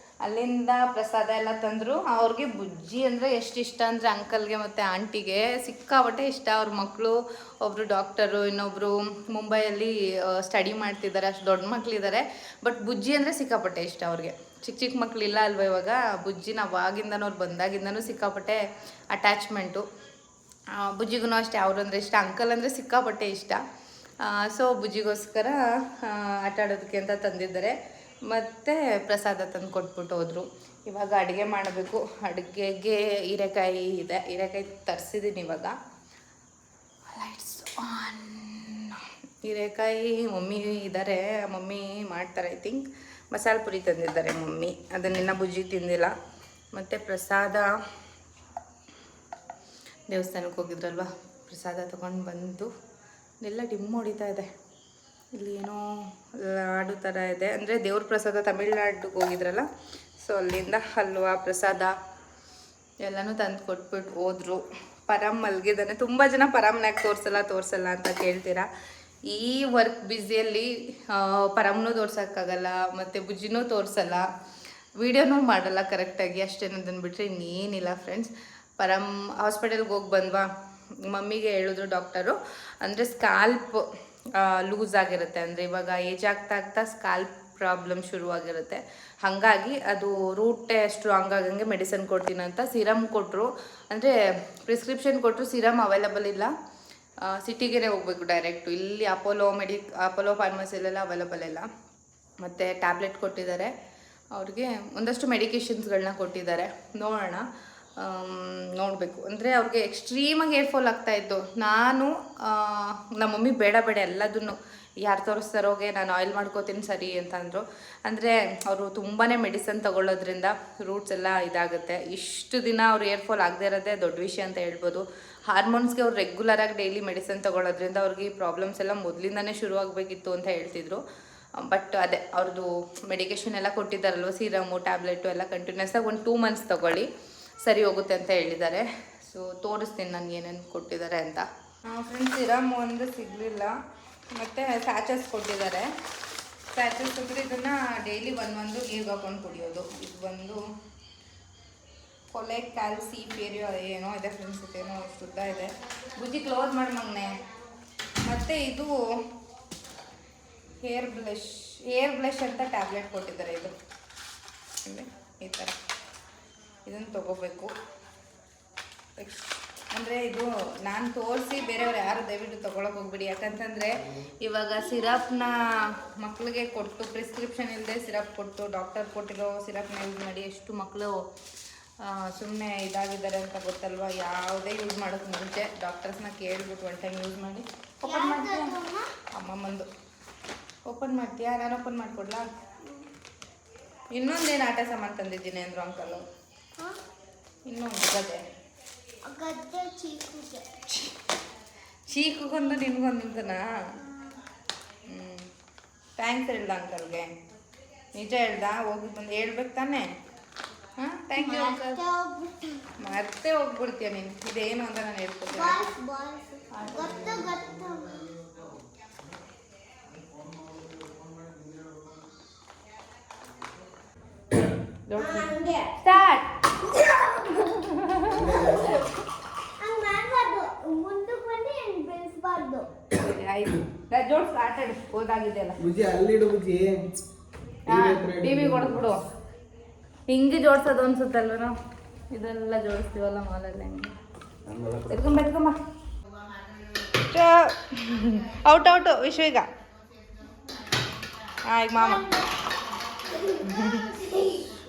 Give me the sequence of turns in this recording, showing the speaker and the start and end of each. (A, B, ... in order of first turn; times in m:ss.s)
0:00.2-0:18.6 A
0:19.1-0:19.8 A
0:20.8-0:23.6 A
0:24.2-0:35.8 A
0:37.1-0:46.1 A
0:46.7-0:47.7 A
0:50.1-0:52.7 A
0:53.4-0:54.5 A
0:55.3-0:59.7 A
1:00.2-1:01.9 A
1:03.0-1:08.7 A
1:09.3-1:14.2 A
1:15.0-1:20.5 A
1:21.0-1:23.8 A
1:24.4-1:36.5 A
1:37.2-1:41.7 A
1:42.4-1:43.7 A
1:44.3-1:47.4 A
1:48.0-2:11.0 A
2:11.6-2:17.1 A
2:17.6-2:23.8 A
2:24.3-2:25.9 A
2:26.7-2:30.6 A
2:32.3-2:37.4 A
2:38.2-2:38.9 A
2:40.8-2:43.7 A
2:44.8-2:45.7 A
2:46.8-2:47.7 A
2:49.2-3:01.2 A
3:02.0-3:08.8 A
3:08.0-3:09.1 B
3:09.3-3:09.9 A
3:10.9-3:12.5 A
3:14.1-3:16.2 A
3:17.7-3:18.4 A
3:19.2-3:20.7 B
3:20.9-3:21.1 A
3:22.1-3:23.7 A
3:24.0-3:24.4 B
3:25.1-3:25.5 A
3:26.2-3:27.3 A
3:28.1-3:30.1 A
3:31.0-3:32.0 A
3:31.4-3:32.9 B
3:33.0-3:35.8 A
3:35.5-3:38.3 B
3:36.7-3:37.5 A
3:45.1-3:49.1 A
3:45.2-3:46.2 B
3:48.3-3:49.0 C
3:49.8-3:52.9 B
3:53.1-3:55.8 A
3:55.8-3:57.0 C
3:57.9-3:59.2 A
3:57.9-3:59.0 C
4:00.3-4:01.7 A
4:02.3-4:04.1 A
4:04.7-4:05.0 C
4:05.1-4:05.8 A
4:07.3-4:09.7 A
4:11.7-4:12.3 A
4:12.0-4:12.4 B
4:13.6-4:14.2 A